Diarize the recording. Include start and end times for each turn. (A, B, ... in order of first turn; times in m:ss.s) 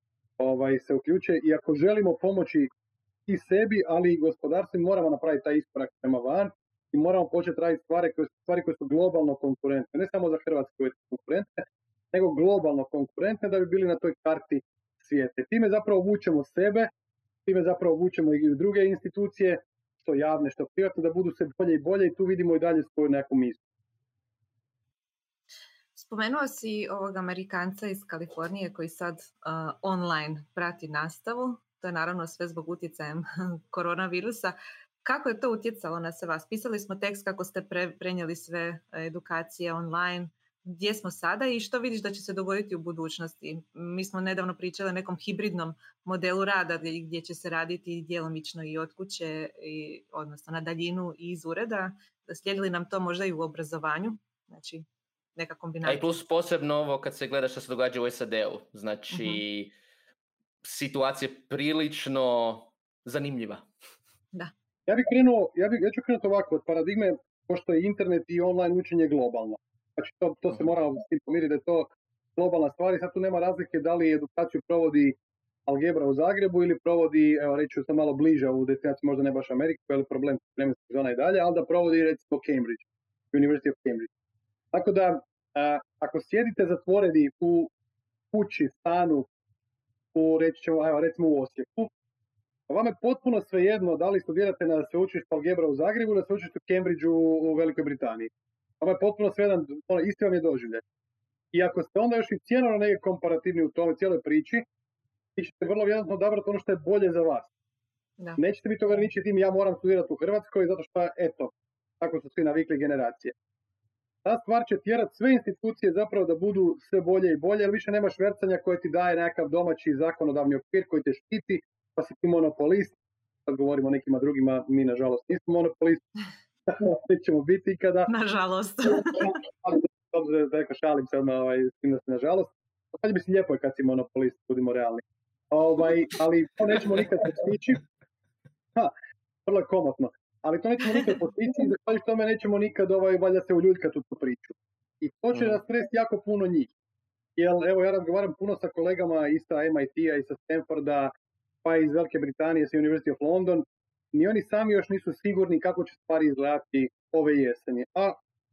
0:00.4-0:02.7 A
0:03.3-0:16.9 A
0:17.4-0:23.6 A
0:26.0-0:56.1 B
0:55.8-0:59.7 C
0:59.1-0:59.4 B
1:00.6-1:03.7 C
1:04.9-1:24.1 A
1:24.7-1:27.7 A
1:28.3-1:29.3 A
1:30.1-1:31.9 A
1:32.7-1:40.8 A
1:41.5-1:44.6 A
1:45.4-1:47.5 A
1:48.4-1:53.3 A
1:54.2-2:06.0 A
2:06.7-2:08.1 A
2:08.1-2:09.4 B
2:08.9-2:17.8 A
2:19.4-2:26.7 A
2:25.3-2:25.6 C
2:27.4-2:31.1 A
2:31.6-2:38.2 A